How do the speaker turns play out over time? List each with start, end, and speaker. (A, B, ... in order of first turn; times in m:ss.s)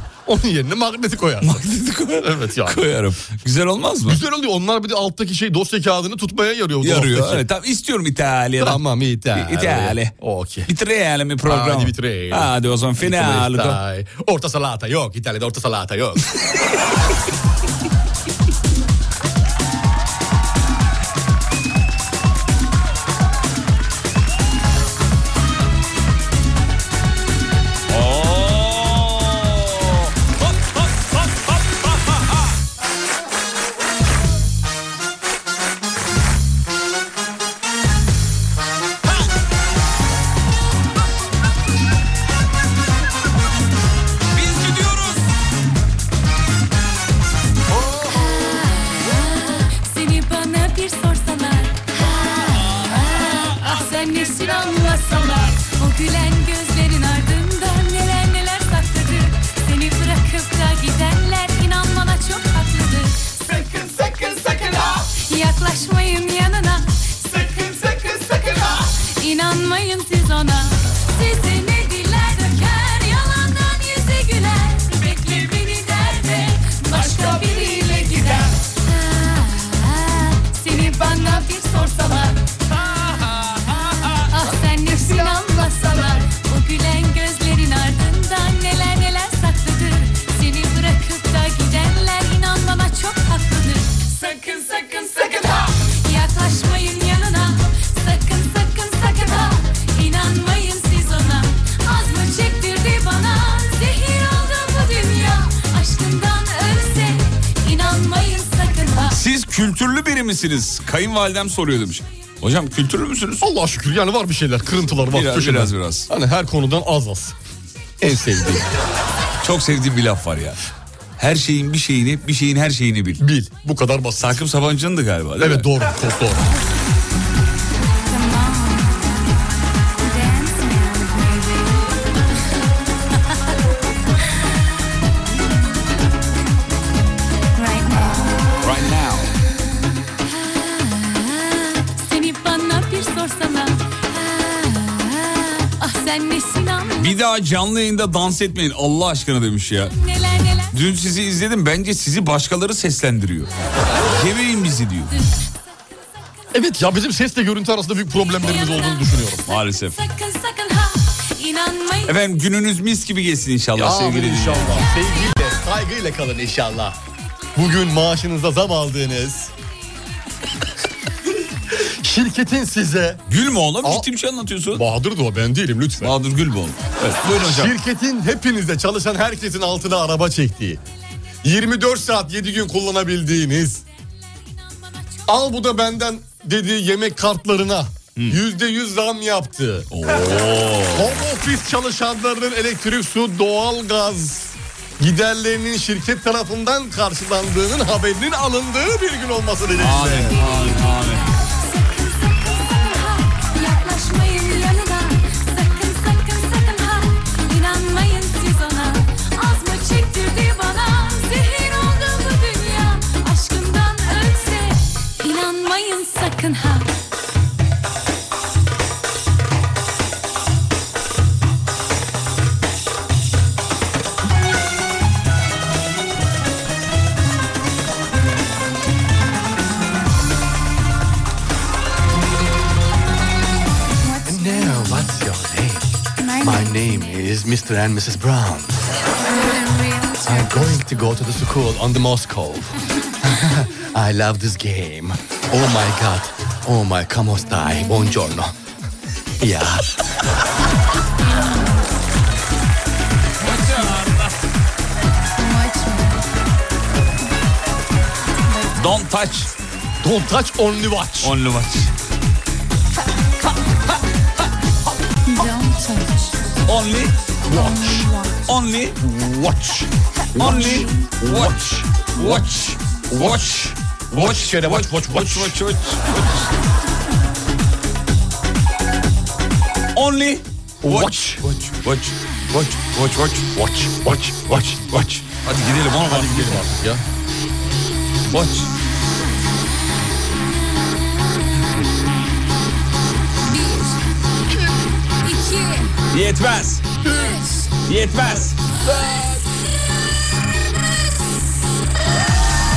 0:00.2-0:02.8 A
0:01.4-0:04.2 B
0:04.0-0:07.4 A
0:06.8-0:08.8 B
0:08.6-0:10.7 A
0:09.3-0:10.1 B
0:10.6-0:13.8 B
0:11.4-0:16.2 A
0:27.9-0:32.2 B
0:44.3-0:45.2 B
0:48.1-0:51.8 C
0:52.7-1:22.5 C
1:23.9-1:49.2 C
1:49.1-1:53.4 B
1:53.4-1:57.4 A
1:55.0-1:56.1 B
1:58.0-1:58.7 A
1:59.4-2:03.2 B
2:03.2-2:04.4 A
2:04.2-2:05.7 B
2:05.4-2:06.5 A
2:08.1-2:09.2 C
2:10.0-2:12.0 C
2:17.6-2:18.6 C
2:18.6-2:19.3 B
2:20.3-2:27.2 C
2:27.0-2:29.9 B
2:30.0-2:30.7 C
2:30.7-2:35.1 B
2:36.5-2:39.4 A
2:38.7-2:39.1 C
2:39.4-2:40.0 B
2:40.0-2:42.1 C
2:42.1-2:44.8 B
2:43.8-2:47.0 A
2:47.6-2:49.5 A
2:51.7-2:53.2 A
2:53.3-2:54.8 B
2:53.8-2:54.1 A
2:54.7-2:56.1 A
2:56.0-2:57.7 B
2:57.4-3:00.8 A
3:01.4-3:03.8 A
3:05.3-3:09.9 A
3:09.9-3:11.2 B
3:10.9-3:20.4 A
3:19.7-3:21.3 B
3:20.5-3:36.9 C
3:54.1-3:54.8 C
3:54.2-3:58.8 A
3:56.2-3:56.9 C
3:59.4-4:00.7 C
4:00.2-4:08.5 A
4:09.4-4:10.2 A
4:11.3-4:11.8 C
4:13.4-4:14.3 B
4:15.4-4:16.2 C
4:18.7-4:19.5 B
4:20.0-4:21.3 A
4:21.2-4:21.9 B
4:25.3-4:26.6 C
4:26.6-4:27.1 B
4:27.5-4:28.1 A
4:27.5-4:28.3 C
4:28.5-4:29.0 B
4:29.0-4:32.4 A
4:30.4-4:36.5 B
4:33.1-4:35.6 A
4:39.9-4:43.5 B
4:40.8-4:41.4 A
4:43.5-4:44.9 A
4:44.7-4:46.6 B
4:46.0-4:47.0 A
4:48.3-4:48.7 B
4:53.4-4:54.0 C
4:55.2-4:55.9 C
4:56.1-4:56.8 B
4:57.0-4:57.4 A
4:57.1-4:57.6 C
4:57.8-4:59.2 B